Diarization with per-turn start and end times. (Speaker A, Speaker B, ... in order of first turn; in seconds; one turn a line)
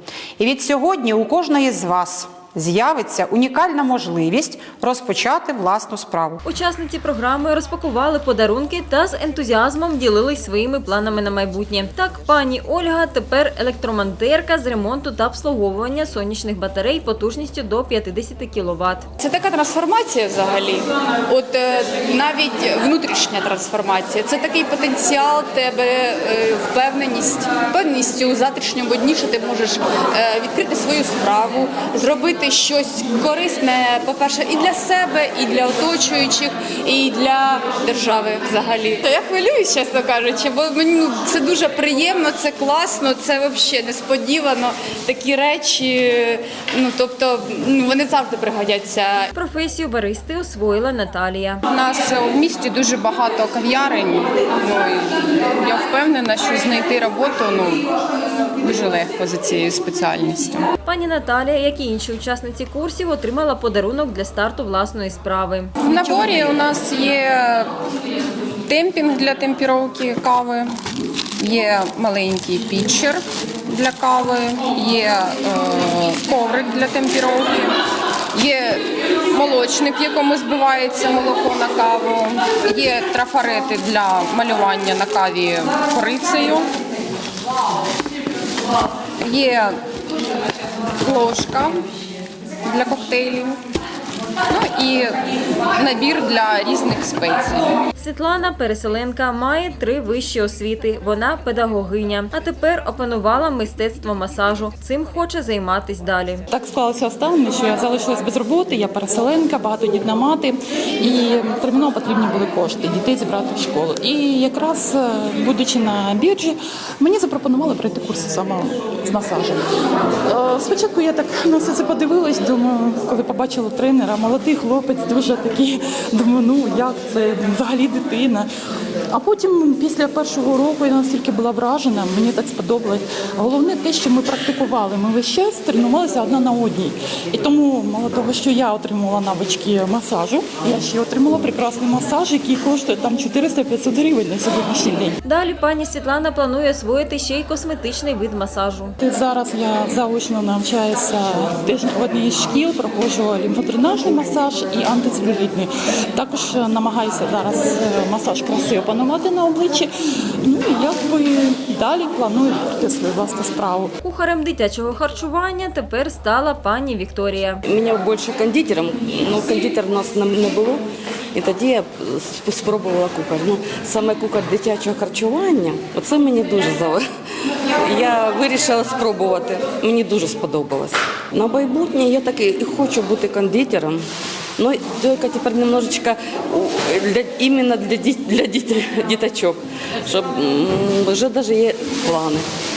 Speaker A: 0.4-6.4
Speaker B: 6.5-19.1
Speaker C: 19.2-49.3
Speaker B: 49.3-51.6
Speaker D: 51.7-57.9
Speaker D: 58.6-60.7
Speaker B: 60.9-65.8
Speaker D: 65.8-67.7
Speaker D: 68.7-70.7
Speaker D: 71.4-77.8
Speaker D: 78.3-86.7
Speaker D: 89.2-89.8
Speaker D: 91.0-91.8
Speaker D: 92.7-93.6
Speaker D: 94.5-95.2
Speaker D: 95.8-97.7
Speaker B: 98.0-106.5
Speaker E: 106.5-119.6
Speaker E: 120.3-128.5
Speaker E: 129.1-145.2
Speaker B: 145.2-149.0
Speaker E: 149.0-159.9
Speaker E: 160.4-163.9
Speaker B: 164.0-167.6
Speaker F: 167.7-177.0
Speaker F: 177.7-184.0
Speaker F: 184.6-192.5